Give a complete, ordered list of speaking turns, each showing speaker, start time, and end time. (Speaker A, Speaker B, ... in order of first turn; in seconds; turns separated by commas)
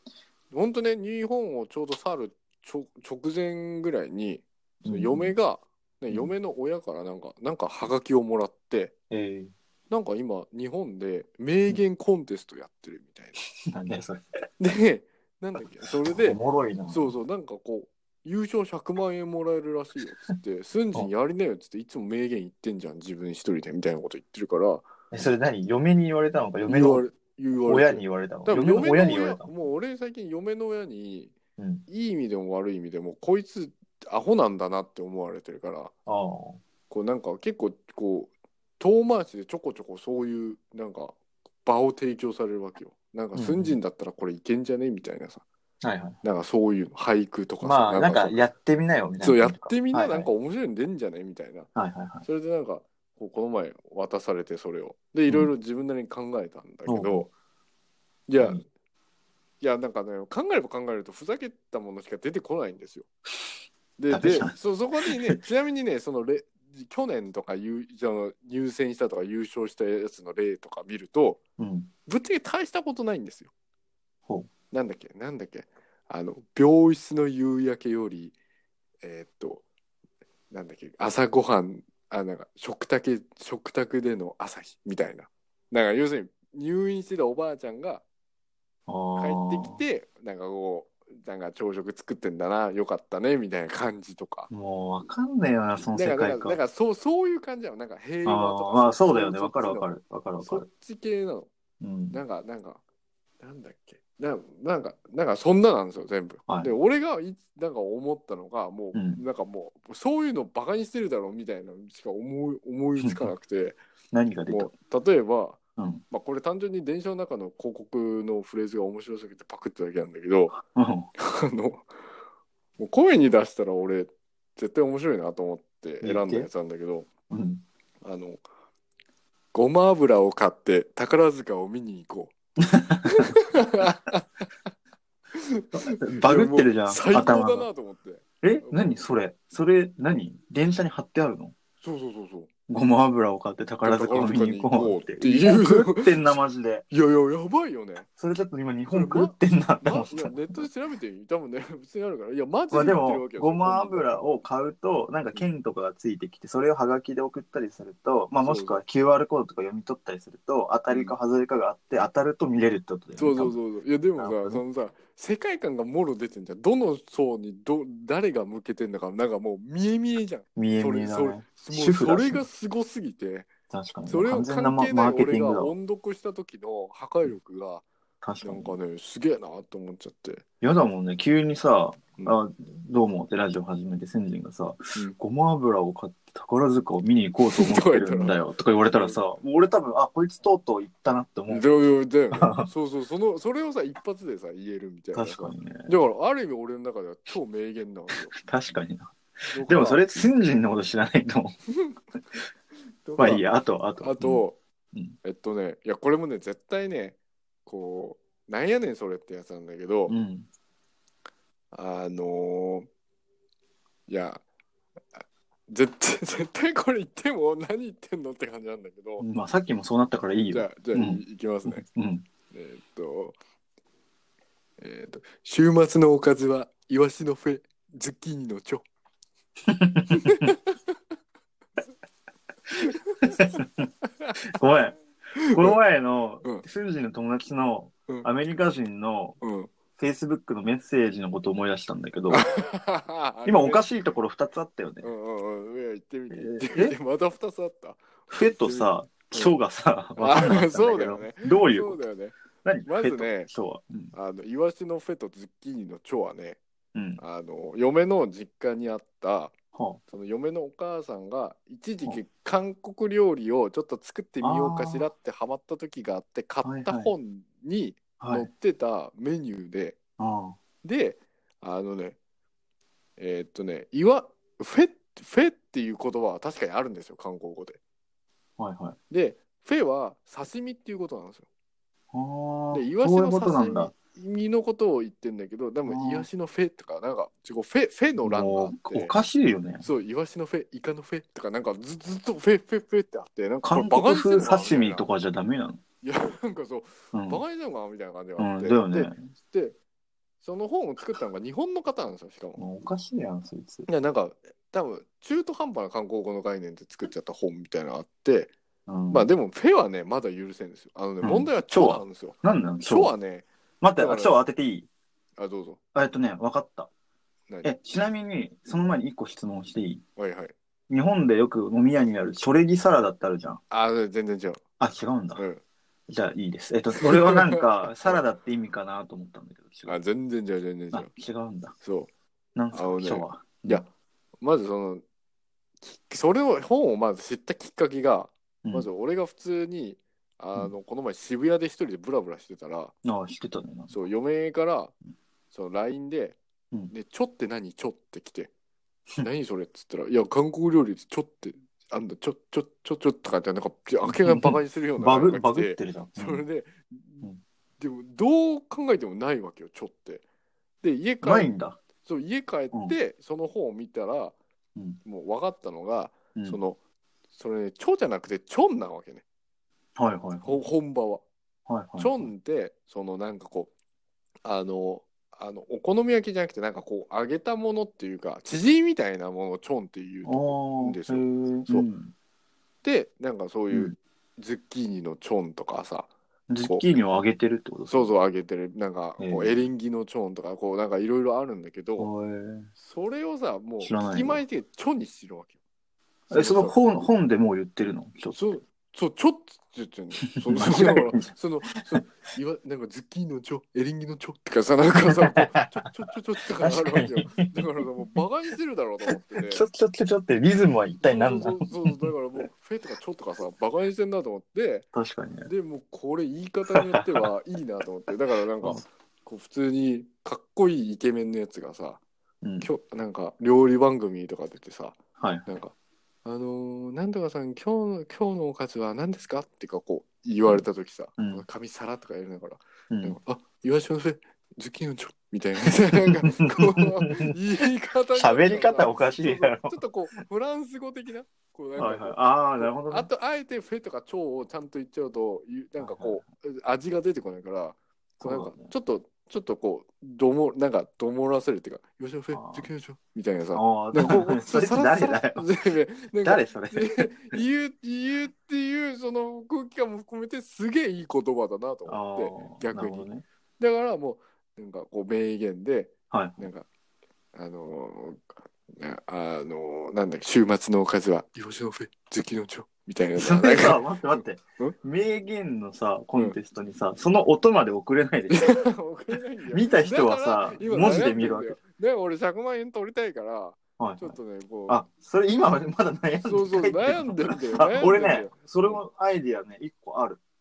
Speaker A: 0.5-8.9, Speaker B: 4.8-5.3, Speaker B: 9.1-9.5, Speaker A: 9.9-13.4, Speaker B: 13.6-14.3, Speaker A: 14.6-24.9, Speaker B: 16.1-17.1, Speaker B: 25.1-27.1, Speaker A: 26.7-31.4, Speaker B: 27.6-29.5, Speaker B: 31.6-31.8, Speaker A: 31.9-35.9, Speaker B: 36.1-36.6, Speaker A: 36.9-45.4, Speaker B: 43.3-43.8, Speaker B: 45.8-46.2, Speaker A: 46.2-48.5, Speaker B: 47.6-50.3, Speaker A: 49.2-51.7, Speaker B: 51.8-52.2, Speaker A: 52.2-57.3, Speaker B: 56.9-57.3, Speaker A: 58.3-58.6, Speaker A: 59.6-63.1, Speaker A: 64.0-71.4, Speaker B: 64.1-64.5, Speaker B: 65.1-65.4, Speaker B: 71.6-71.9, Speaker A: 72.1-73.5, Speaker A: 74.7-78.3, Speaker A: 79.0-79.6, Speaker A: 80.5-88.0, Speaker B: 88.9-89.8, Speaker A: 89.2-94.5, Speaker B: 94.5-96.6, Speaker A: 95.9-101.5, Speaker B: 98.2-100.7, Speaker B: 101.8-102.2, Speaker A: 102.1-102.8, Speaker A: 103.4-113.8, Speaker B: 108.9-109.2, Speaker B: 113.0-113.3, Speaker B: 114.1-114.7, Speaker A: 114.5-120.6, Speaker B: 115.8-116.0, Speaker B: 120.6-121.1, Speaker A: 121.2-121.9, Speaker A: 122.8-127.1, Speaker B: 126.0-126.5, Speaker B: 127.3-127.6, Speaker A: 128.0-128.4, Speaker A: 129.5-132.3, Speaker B: 132.6-133.3, Speaker A: 133.1-134.4, Speaker A: 135.3-138.9, Speaker B: 135.7-137.7, Speaker B: 138.4-141.5, Speaker A: 141.8-142.5, Speaker B: 142.7-146.9, Speaker A: 143.8-146.3, Speaker A: 146.9-148.1, Speaker B: 148.2-150.7, Speaker A: 148.9-154.2, Speaker B: 152.7-163.6, Speaker A: 158.4-158.8, Speaker A: 163.2-173.5, Speaker B: 164.2-164.6, Speaker B: 170.6-172.5, Speaker B: 173.7-175.8, Speaker A: 174.1-177.8, Speaker B: 178.2-178.8, Speaker A: 178.4-180.4, Speaker B: 180.6-191.7, Speaker A: 187.5-189.4, Speaker A: 191.5-198.3, Speaker B: 192.3-192.7, Speaker B: 195.1-195.9, Speaker B: 198.3-201.5, Speaker A: 199.5-200.2, Speaker A: 203.1-203.4, Speaker B: 203.2-205.2, Speaker A: 204.0-204.6, Speaker A: 205.2-210.2, Speaker B: 210.1-210.5, Speaker A: 211.7-212.9, Speaker A: 214.1-214.4, Speaker A: 215.7-219.2, Speaker B: 219.2-222.2, Speaker A: 220.5-221.8, Speaker A: 222.5-223.3, Speaker A: 224.8-228.8, Speaker B: 229.7-230.5, Speaker A: 230.1-230.8, Speaker A: 232.8-233.6, Speaker B: 233.3-233.9, Speaker B: 234.5-235.0, Speaker A: 235.3-235.8, Speaker B: 235.5-239.4, Speaker A: 239.4-239.7, Speaker B: 240.0-242.5, Speaker A: 242.3-243.9, Speaker B: 243.4-245.1, Speaker A: 245.0-249.6, Speaker B: 246.3-246.9, Speaker B: 248.3-252.0, Speaker A: 250.2-253.5, Speaker B: 252.6-254.1, Speaker A: 254.1-256.6, Speaker B: 256.9-257.2, Speaker A: 257.2-259.5, Speaker B: 259.7-260.0, Speaker A: 260.1-270.0, Speaker B: 264.4-265.1, Speaker B: 266.6-267.1, Speaker B: 268.2-268.5, Speaker B: 270.2-270.6, Speaker A: 270.8-272.2, Speaker A: 273.2-277.8, Speaker B: 278.6-279.0, Speaker A: 279.1-281.5, Speaker B: 282.1-283.9, Speaker A: 282.7-289.2, Speaker B: 285.9-286.3, Speaker B: 288.2-289.9, Speaker A: 289.8-295.1, Speaker B: 293.6-295.8, Speaker A: 296.0-299.8, Speaker B: 297.1-297.4, Speaker B: 298.4-299.2, Speaker A: 300.4-302.6, Speaker B: 302.6-303.9, Speaker A: 303.9-308.5, Speaker B: 308.9-309.3, Speaker A: 309.1-314.4, Speaker B: 311.2-313.1, Speaker B: 313.8-314.9, Speaker A: 315.4-315.8, Speaker B: 315.9-316.9, Speaker B: 317.6-320.0, Speaker A: 320.2-320.5, Speaker B: 320.9-323.6, Speaker A: 323.7-324.6, Speaker B: 324.8-325.4, Speaker A: 325.4-325.6, Speaker B: 326.1-330.0, Speaker A: 327.0-328.2, Speaker A: 329.9-331.1, Speaker B: 330.9-331.7, Speaker A: 331.8-332.1, Speaker B: 332.6-333.8, Speaker A: 332.7-333.9, Speaker A: 334.4-335.0, Speaker A: 335.8-342.9, Speaker B: 343.0-343.9, Speaker A: 343.9-344.9, Speaker A: 345.5-346.4, Speaker A: 346.9-348.5, Speaker A: 349.2-357.3, Speaker B: 354.1-356.4, Speaker A: 357.8-360.2, Speaker A: 360.8-364.4, Speaker B: 361.2-361.8, Speaker A: 365.0-366.8, Speaker A: 367.3-369.2, Speaker B: 370.0-370.6, Speaker A: 370.4-371.2, Speaker B: 371.7-372.3, Speaker A: 372.0-373.7, Speaker A: 374.4-381.9, Speaker B: 380.2-382.1, Speaker A: 382.8-386.1, Speaker B: 386.5-388.1, Speaker A: 387.9-392.1, Speaker B: 389.2-389.6, Speaker B: 392.0-392.7, Speaker A: 392.8-395.6, Speaker B: 393.8-394.4, Speaker B: 396.3-398.4, Speaker A: 396.3-396.8, Speaker A: 398.3-409.7, Speaker B: 400.3-401.3, Speaker B: 405.0-405.7, Speaker B: 406.6-408.2, Speaker B: 409.4-412.1, Speaker A: 411.0-414.9, Speaker B: 414.9-415.5, Speaker A: 415.5-422.0, Speaker B: 416.8-417.2, Speaker B: 422.4-422.7, Speaker A: 422.6-425.7, Speaker B: 425.2-425.5, Speaker A: 426.2-463.1, Speaker B: 431.2-431.4, Speaker B: 432.9-433.2, Speaker B: 436.1-437.4, Speaker B: 438.1-439.8, Speaker B: 441.8-443.1, Speaker B: 445.8-446.2, Speaker B: 448.2-448.7, Speaker B: 452.3-452.7, Speaker B: 453.6-455.5, Speaker B: 456.2-457.4, Speaker B: 461.9-463.2, Speaker A: 463.6-466.7, Speaker B: 466.1-466.5, Speaker A: 467.3-474.8, Speaker B: 473.2-478.7, Speaker A: 478.3-484.8, Speaker B: 479.5-481.6, Speaker B: 483.8-484.1, Speaker B: 484.7-490.2, Speaker A: 486.2-488.8